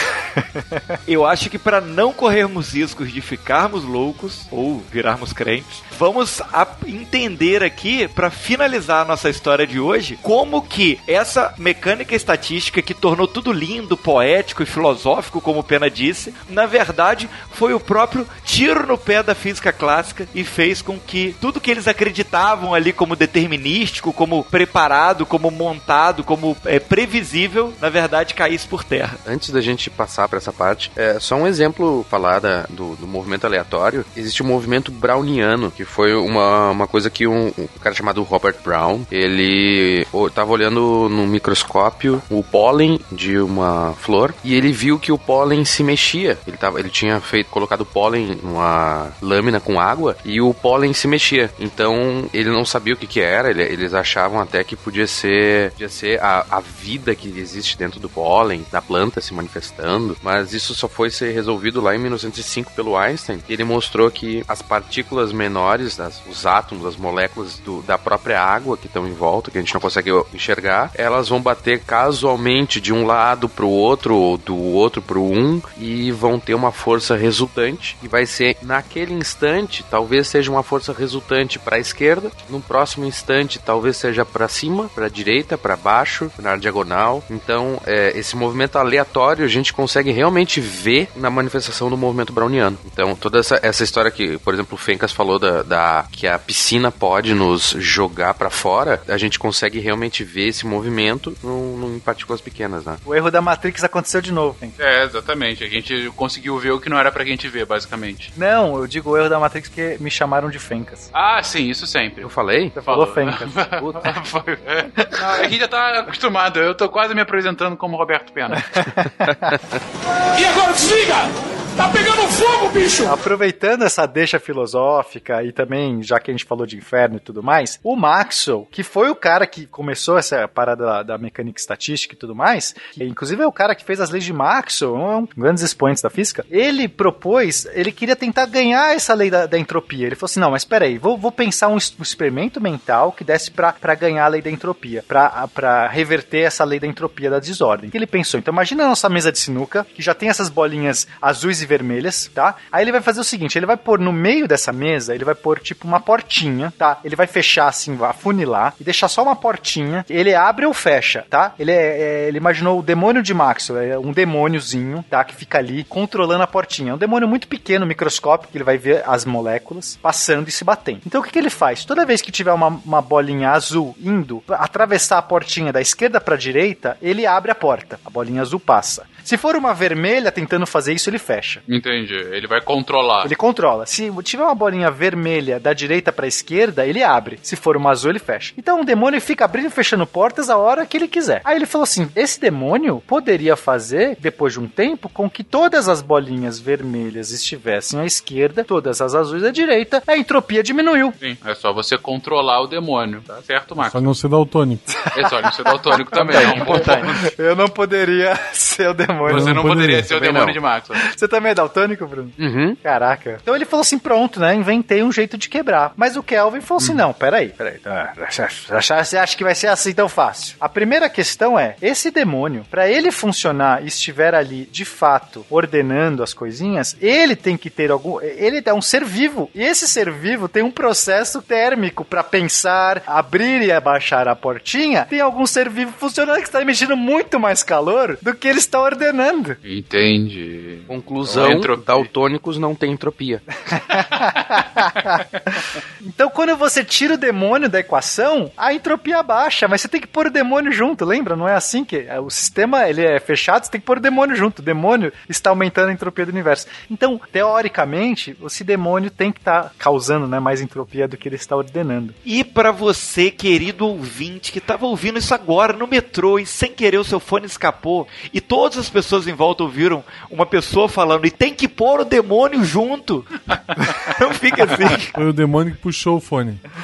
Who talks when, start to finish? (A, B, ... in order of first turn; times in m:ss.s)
0:00.4-0:00.8 A
0:01.0-0:29.2 B
0:29.2-1:43.0 C
1:43.0-1:44.8 A
1:44.8-1:48.3 D
1:48.4-1:51.1 A
1:51.1-1:58.7 D
1:52.2-1:52.7 C
1:52.7-1:53.7 A
1:55.0-1:55.5 A
1:58.8-1:59.5 A
1:59.3-1:59.8 C
2:00.3-2:03.2 E
2:03.0-3:01.6 A
3:01.7-3:03.3 D
3:03.2-3:21.2 A
3:21.2-3:24.0 D
3:23.8-3:24.9 F
3:25.1-3:27.2 D
3:25.9-3:30.0 A
3:26.6-3:27.0 C
3:29.2-3:31.0 D
3:30.1-3:30.6 C
3:31.0-3:59.6 A
3:32.4-3:32.8 C
3:59.6-4:02.1 D
4:00.9-4:03.4 C
4:03.7-4:05.1 A
4:03.9-4:05.2 D
4:06.0-4:22.1 A
4:22.2-4:33.3 B
4:34.2-4:35.1 B
4:35.1-4:36.6 F